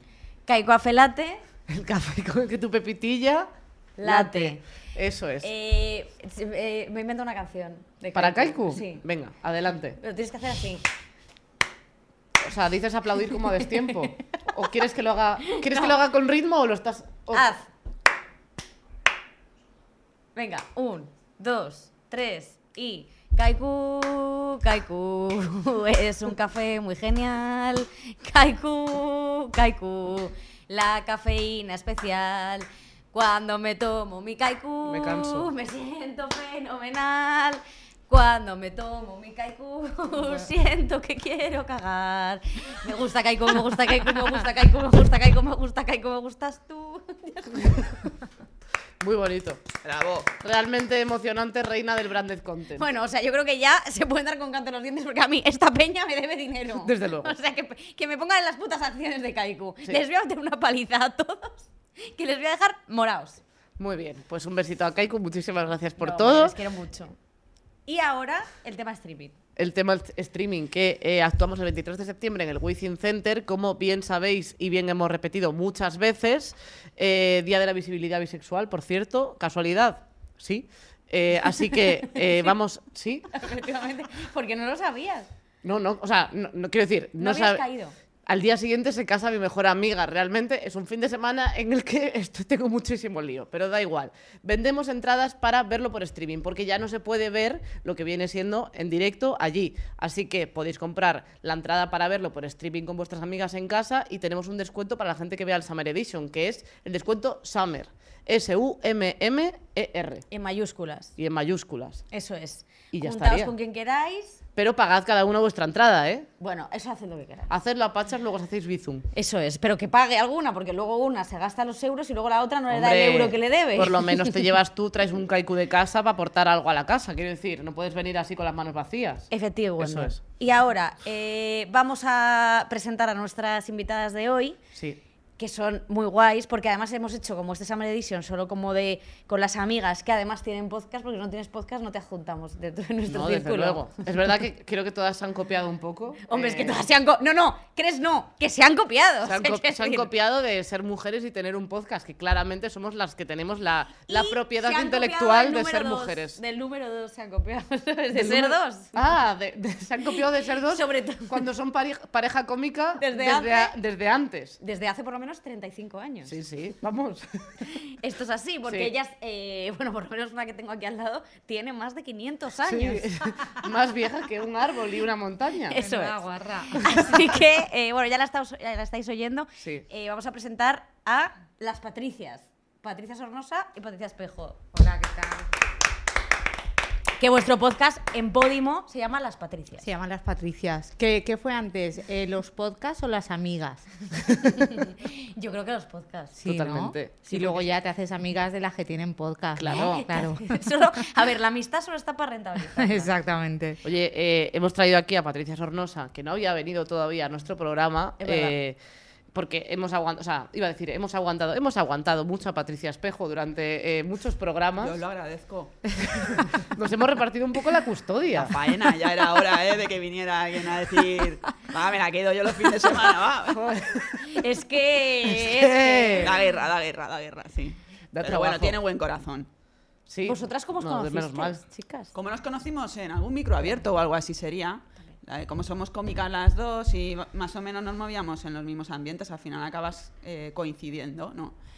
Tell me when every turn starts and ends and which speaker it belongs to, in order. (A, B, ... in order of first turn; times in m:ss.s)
0:00.5-0:01.4 A
0:01.7-0:03.5 B
0:04.0-0:04.6 A
0:04.0-0:05.5 B
0:05.4-0:09.0 A
0:08.2-0:10.0 B
0:10.0-0:10.9 A
0:12.4-0:17.5 B
0:15.5-0:16.0 A
0:17.3-0:17.7 A
0:20.3-0:47.9 A
0:34.9-0:35.5 B
0:49.0-0:49.6 B
0:49.8-0:50.3 C
0:50.4-0:52.9 B
0:52.8-1:03.4 A
0:56.8-0:57.3 B
1:03.8-1:06.6 B
1:06.0-1:07.2 A
1:07.9-1:09.4 A
1:09.6-1:23.4 B
1:22.1-1:22.5 A
1:23.3-1:25.3 A
1:25.6-1:27.6 B
1:27.2-1:27.9 A
1:28.2-1:50.2 B
1:50.3-1:51.2 A
1:51.2-1:52.0 B
1:52.1-1:54.4 A
1:52.9-1:53.5 B
1:54.5-1:56.3 B
1:56.4-1:57.5 A
1:57.5-1:59.1 B
1:59.1-2:04.3 A
2:02.7-2:10.2 B
2:09.3-2:14.6 A
2:14.7-2:15.0 B
2:15.4-2:23.9 A
2:23.1-2:26.8 B
2:26.2-2:30.1 A
2:29.2-2:36.4 B
2:34.1-2:39.1 A
2:38.1-2:44.6 B
2:40.1-2:41.5 A
2:43.0-2:43.7 A
2:44.6-2:46.3 A
2:46.3-2:47.7 B
2:47.8-2:53.1 A
2:52.7-2:55.8 B
2:55.7-3:04.6 A
2:55.8-2:57.4 D
3:04.7-3:05.5 D
3:07.2-3:09.9 A
3:09.8-3:14.5 D
3:14.5-3:16.4 A
3:16.4-3:20.6 D
3:16.5-3:17.2 B
3:17.3-3:17.7 A
3:19.6-3:20.1 B
3:19.7-3:23.1 A
3:22.8-3:23.8 D
3:23.8-3:28.8 B
3:28.2-3:28.5 A
3:29.3-3:35.0 B
3:34.8-3:35.8 C
3:35.9-3:38.6 B
3:38.3-3:43.8 C
3:43.5-3:44.4 B
3:44.2-3:46.4 A
3:45.2-3:46.3 B
3:46.2-3:49.5 C
3:48.1-3:48.8 B
3:50.1-3:51.6 B
3:50.2-3:52.1 A
3:52.1-4:01.6 C